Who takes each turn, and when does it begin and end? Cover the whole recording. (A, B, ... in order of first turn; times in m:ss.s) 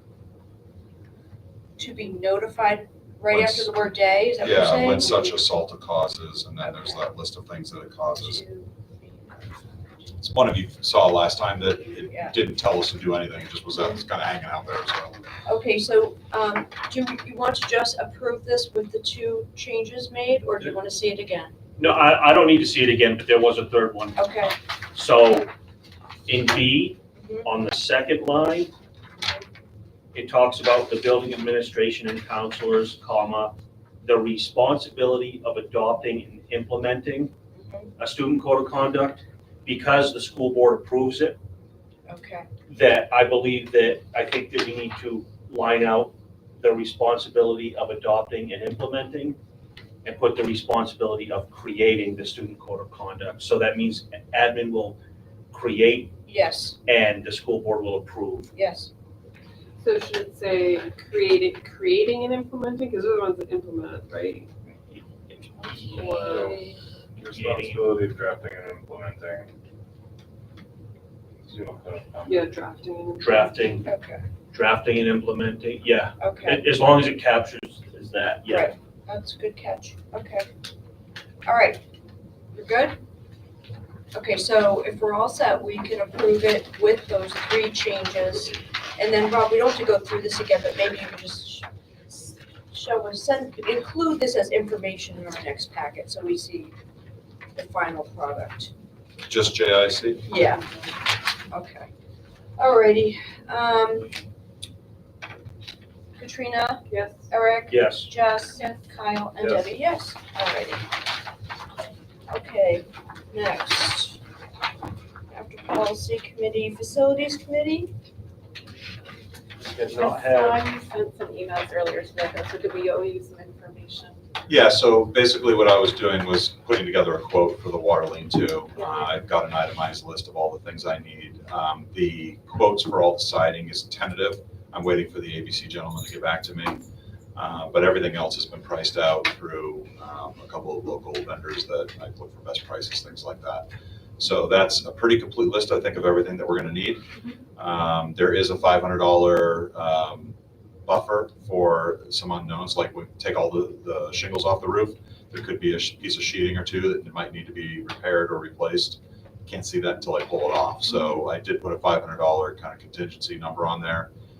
0:01.8-0:05.4 A
0:03.3-0:03.7 B
0:04.4-0:08.4 B
0:06.6-0:07.0 A
0:08.2-0:10.2 A
0:10.2-0:15.1 B
0:13.8-0:14.0 A
0:15.4-0:21.5 A
0:21.8-0:24.2 C
0:24.2-0:24.5 A
0:24.9-0:25.5 C
0:26.3-0:28.7 C
0:27.2-0:27.5 A
0:30.1-0:37.3 C
0:37.5-0:37.9 A
0:38.0-0:41.4 C
0:42.1-0:42.5 A
0:42.7-0:49.4 C
0:50.0-0:55.0 C
0:55.5-0:56.1 C
0:56.3-0:56.8 A
0:56.8-0:58.5 C
0:58.5-0:58.9 A
0:59.8-1:04.5 D
1:05.3-1:06.4 C
1:05.7-1:09.5 E
1:05.8-1:06.8 D
1:07.3-1:07.9 C
1:11.4-1:12.5 E
1:12.2-1:13.5 D
1:13.2-1:13.9 C
1:13.8-1:14.2 A
1:14.5-1:18.7 C
1:16.2-1:16.6 A
1:18.5-1:20.4 A
1:21.4-1:21.8 A
1:22.5-1:23.0 A
1:24.1-1:36.7 A
1:37.5-1:38.7 A
1:39.2-1:40.2 B
1:40.2-1:40.6 A
1:41.5-1:41.9 A
1:42.6-1:44.2 A
1:46.2-1:50.8 A
1:46.9-1:47.2 D
1:47.7-1:48.1 C
1:52.3-1:54.2 A
1:55.3-1:57.9 A
1:59.6-2:00.6 C
1:59.8-2:04.2 D
2:04.5-2:16.8 B
2:08.8-2:09.0 D
2:17.4-2:23.7 B
2:24.2-2:27.0 B
2:27.6-2:44.1 B